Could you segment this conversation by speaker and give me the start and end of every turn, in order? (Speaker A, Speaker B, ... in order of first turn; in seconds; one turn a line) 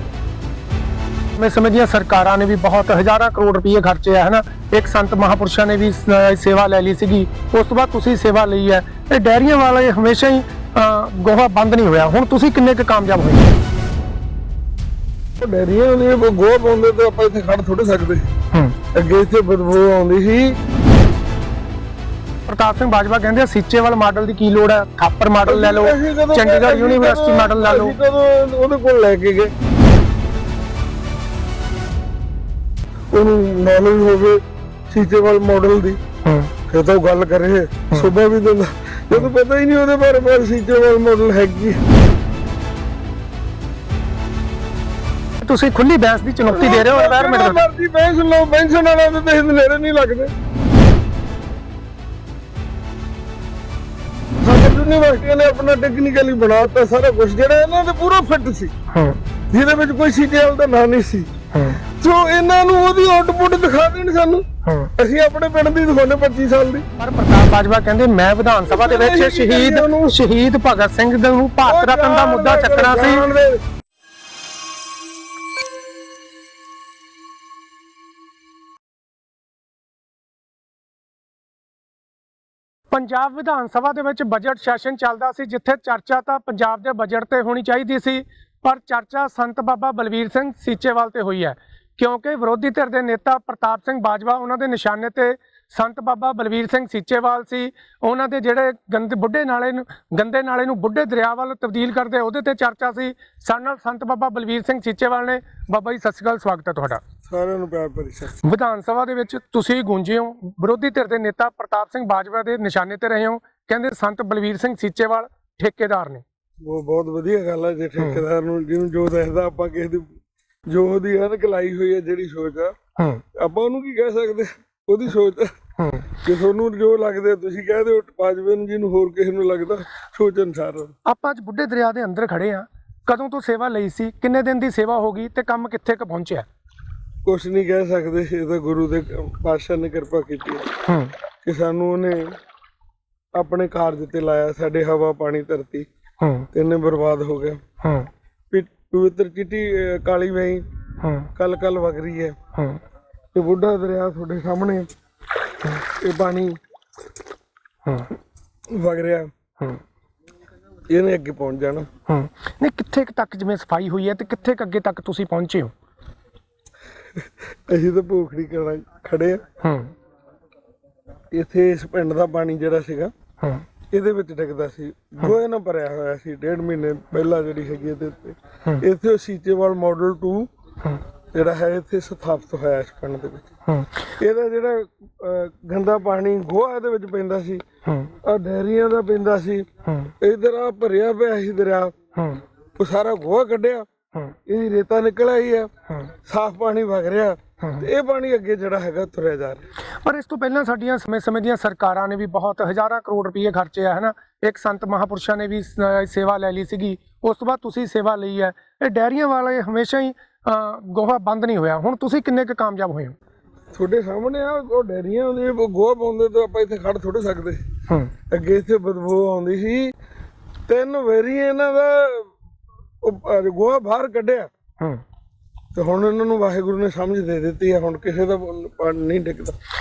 Speaker A: 1.4-13.5
Speaker B: 15.4-18.3
Speaker B: 18.9-20.6
Speaker A: 22.5-27.9
Speaker B: 25.4-29.5
Speaker B: 33.1-36.0
Speaker B: 36.7-41.8
Speaker A: 45.4-47.6
Speaker B: 46.5-50.3
Speaker B: 54.4-58.7
Speaker B: 59.5-61.3
Speaker B: 62.0-64.4
Speaker B: 65.0-66.8
Speaker A: 67.0-73.2
Speaker B: 68.7-70.1
Speaker B: 71.7-73.6
Speaker A: 82.9-107.0
Speaker B: 107.2-108.4
Speaker A: 108.4-116.2
Speaker B: 116.6-120.1
Speaker B: 120.7-122.7
Speaker B: 123.3-125.5
Speaker B: 126.2-130.9
Speaker A: 131.1-136.4
Speaker B: 137.2-140.7
Speaker B: 141.4-142.3
Speaker B: 143.3-145.9
Speaker B: 146.5-147.6
Speaker B: 148.5-150.6
Speaker B: 151.3-152.3
Speaker B: 153.3-154.9
Speaker B: 156.0-156.6
Speaker B: 158.7-159.3
Speaker B: 160.9-161.9
Speaker A: 162.1-165.7
Speaker B: 167.7-169.4
Speaker B: 171.3-173.1
Speaker B: 173.9-180.5
Speaker B: 181.3-183.5
Speaker B: 184.1-189.7
Speaker B: 190.2-191.9
Speaker B: 192.8-193.8
Speaker B: 194.5-195.7
Speaker B: 196.2-199.6
Speaker A: 200.0-213.1
Speaker B: 213.7-217.6
Speaker B: 218.3-219.9
Speaker B: 220.7-222.3
Speaker B: 223.0-224.5
Speaker B: 225.7-229.5